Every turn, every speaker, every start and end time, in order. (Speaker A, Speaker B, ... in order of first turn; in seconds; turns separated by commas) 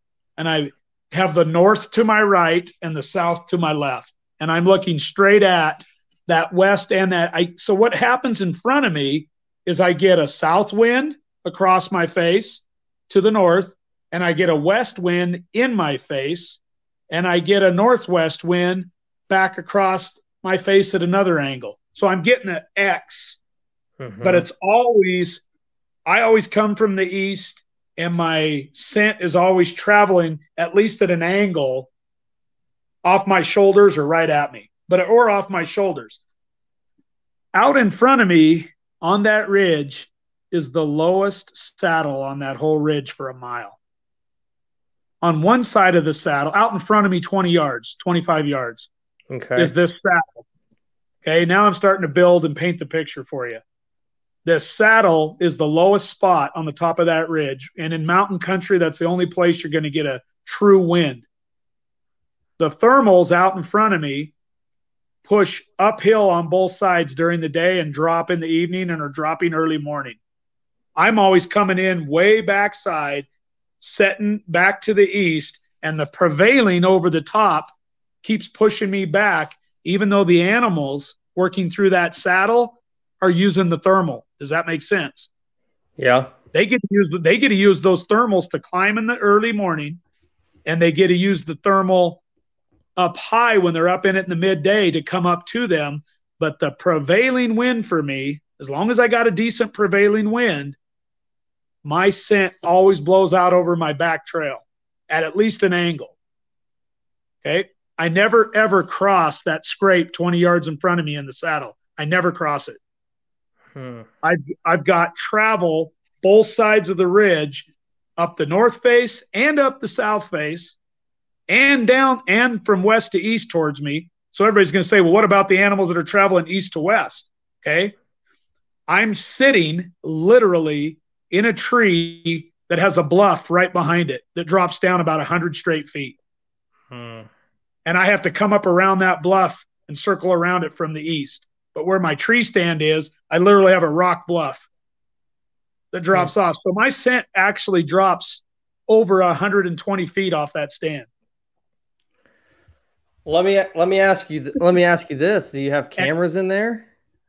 Speaker A: 0.4-23.4, Speaker B: 24.0-24.4, Speaker A: 24.2-25.4, Speaker A: 26.1-31.9, Speaker A: 33.0-36.2, Speaker A: 37.5-43.8, Speaker A: 45.2-48.9, Speaker B: 49.3-49.7, Speaker A: 49.6-50.4, Speaker A: 51.2-53.6, Speaker A: 54.4-61.3, Speaker A: 62.6-64.3, Speaker A: 65.2-70.2, Speaker A: 71.0-73.3, Speaker A: 73.8-85.3, Speaker B: 86.0-86.3, Speaker A: 86.5-90.0, Speaker A: 90.6-92.2, Speaker A: 93.0-100.8, Speaker A: 101.8-106.2, Speaker A: 107.4-112.8, Speaker B: 113.7-114.1, Speaker A: 114.2-117.7, Speaker A: 118.2-120.8, Speaker A: 121.5-127.9, Speaker A: 128.9-136.2, Speaker B: 136.9-137.3, Speaker A: 137.8-144.7, Speaker A: 145.9-151.1, Speaker B: 153.2-156.9